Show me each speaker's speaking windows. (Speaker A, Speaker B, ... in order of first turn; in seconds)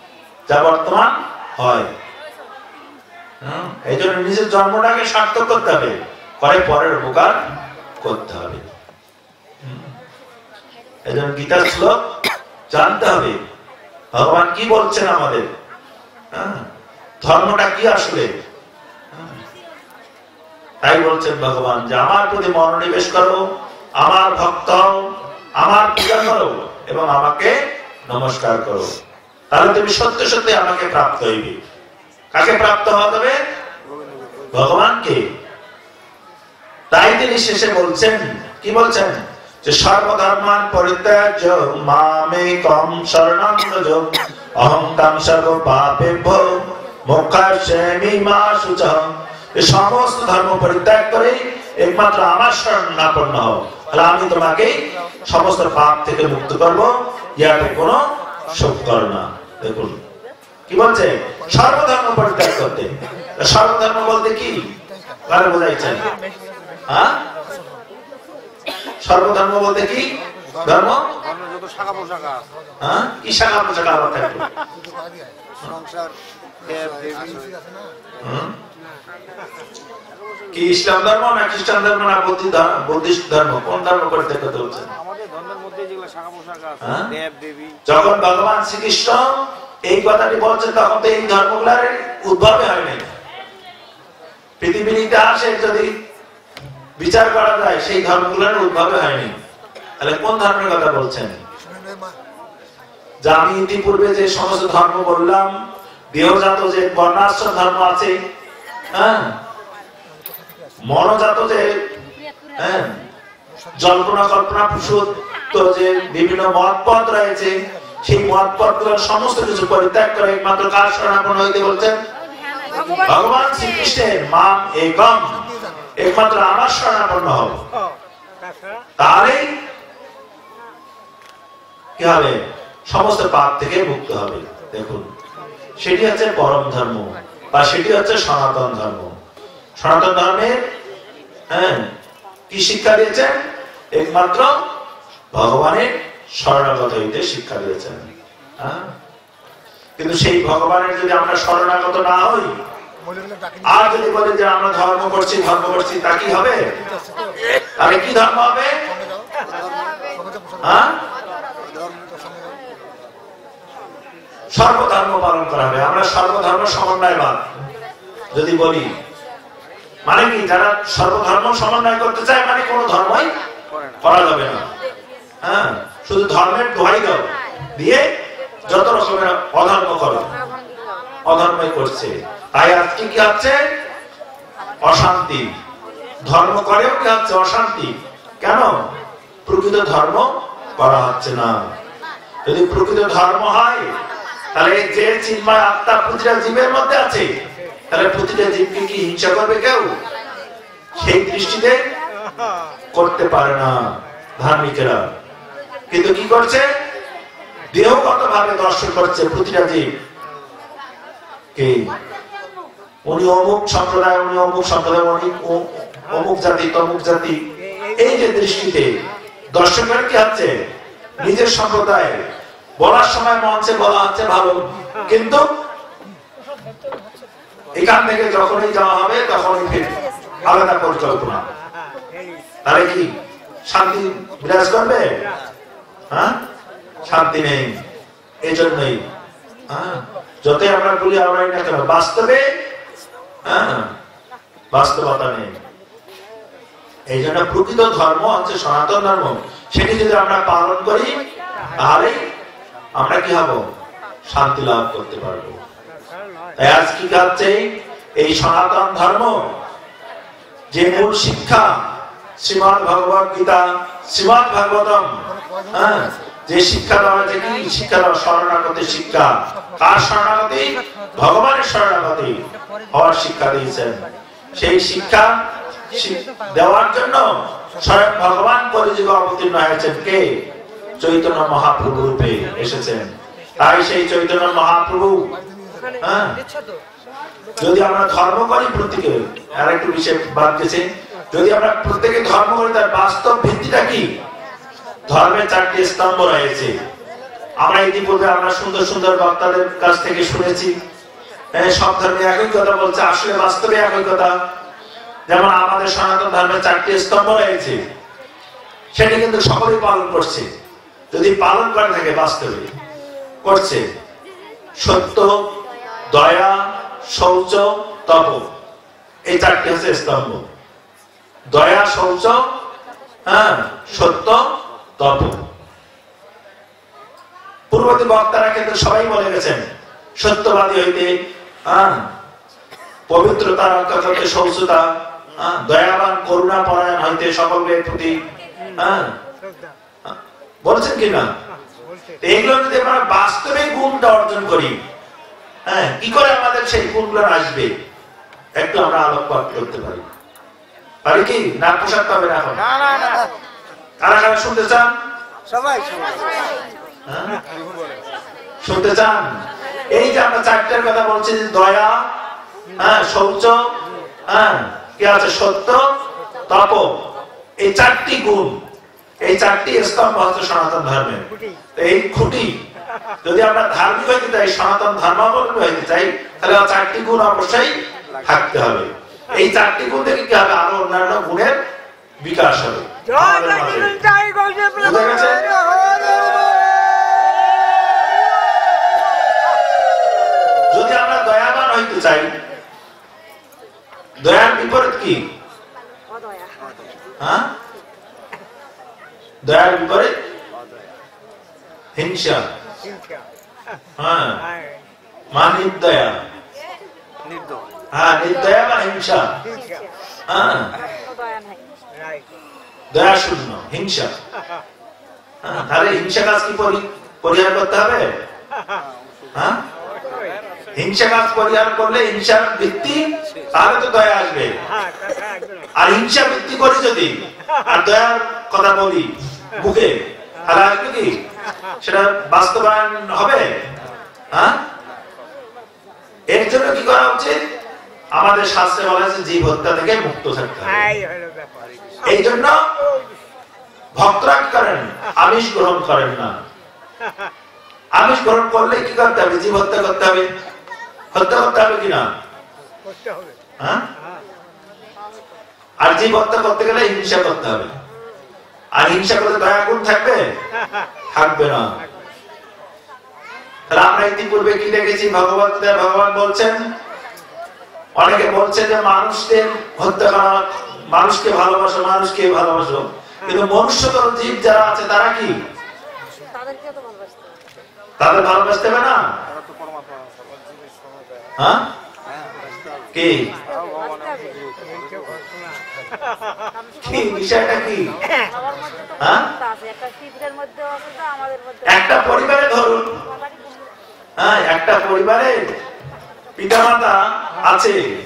Speaker A: 0.5-1.9, 3.4-7.4, 8.0-8.6, 9.6-9.9, 11.1-12.1, 12.7-13.4, 14.1-15.5, 16.3-16.7, 17.2-18.3, 19.1-19.4, 20.8-23.4, 24.0-25.1, 25.6-27.5, 28.1-28.9, 29.5-31.6, 32.3-33.4, 34.5-35.2, 36.9-60.0, 60.7-64.6, 65.3-66.1, 66.9-67.2, 69.0-70.1, 70.6-71.0, 72.8-74.5, 78.2-78.5, 80.5-84.9, 86.8-87.1, 87.8-93.1, 94.6-95.9, 97.0-99.3, 100.0-101.4, 103.2-105.5, 106.1-108.1, 108.9-109.3, 110.8-111.8, 112.6-113.0, 113.8-122.0, 123.0-125.4, 126.0-127.6, 129.0-129.5, 132.0-135.1, 135.8-139.1, 139.8-140.6, 141.5-141.9, 142.5-143.4, 143.9-144.5, 145.3-148.9, 150.0-152.5, 153.7-156.6, 157.8-158.8, 160.6-160.9, 164.5-167.5, 168.3-168.9, 170.1-173.3, 174.0-174.7, 175.4-178.1, 178.7-180.3, 181.2-183.6, 184.8-185.5, 186.2-188.7, 189.4-191.7, 192.4-193.9, 194.5-197.3, 197.9-199.9, 201.0-201.8, 202.9-205.1, 205.9-206.7, 207.7-209.9, 211.5-211.9, 213.1-217.4, 218.0-218.9, 219.5-220.5, 221.2-222.2, 222.8-225.4, 227.8-231.4, 232.6-233.1, 233.7-235.1, 237.1-237.8, 238.4-239.0, 239.7-242.5, 243.4-243.9, 244.7-245.6, 247.1-251.2, 251.8-252.2, 253.0-253.7, 254.3-255.6, 256.6-259.5, 260.7-261.7, 262.4-265.1, 265.7-272.4, 272.9-275.4, 275.9-280.4, 281.0-285.3, 286.0-286.4, 287.6-294.1, 295.1-296.7, 297.6-300.7, 301.5-304.3, 305.3-307.8, 308.9-310.5, 311.1-312.7, 313.4-313.8, 314.8-315.4, 316.1-318.4, 319.3-320.4, 321.5-322.4, 323.3-324.4, 325.0-325.4, 327.7-329.6, 330.2-331.1, 331.7-332.0, 333.1-338.1, 338.8-339.1, 340.0-341.3, 342.2-344.8, 345.7-347.7, 348.6-350.1, 351.0-352.6, 354.0-354.9, 357.1-357.4, 358.6-359.3, 359.9-362.0, 362.8-363.6, 364.3-365.8, 366.5-366.9, 367.6-368.5, 369.2-371.2, 371.8-372.6, 373.2-381.6, 382.2-384.0, 384.8-385.4, 390.7-392.3, 394.2-395.2, 397.2-397.5, 399.4-400.1, 401.9-402.5, 404.0-404.4, 405.3-406.2, 407.9-409.3, 410.3-410.7, 412.9-414.1, 415.4-418.1, 420.8-424.6, 425.8-427.1, 427.6-429.9, 430.5-431.2, 431.8-433.5, 434.3-434.6, 436.3-437.4, 438.1-440.9, 442.0-442.7, 444.0-446.3, 448.0-450.3, 451.1-452.1, 455.8-457.7, 458.8-460.2, 461.1-461.7, 463.7-466.6, 468.0-475.3, 478.0-479.0, 482.9-483.3, 486.8-487.9, 489.0-489.3, 491.7-492.8, 494.2-495.4, 496.4-497.8
Speaker B: 33.9-34.5, 71.1-72.5, 75.6-77.7, 80.3-80.6, 85.0-87.8, 352.8-353.3, 355.5-356.6, 385.7-386.4, 407.2-407.8, 419.9-420.4, 479.3-481.3, 482.1-482.9, 483.4-485.6
Speaker C: 122.7-123.0, 383.7-384.7, 411.1-411.6, 476.6-477.1, 490.7-491.0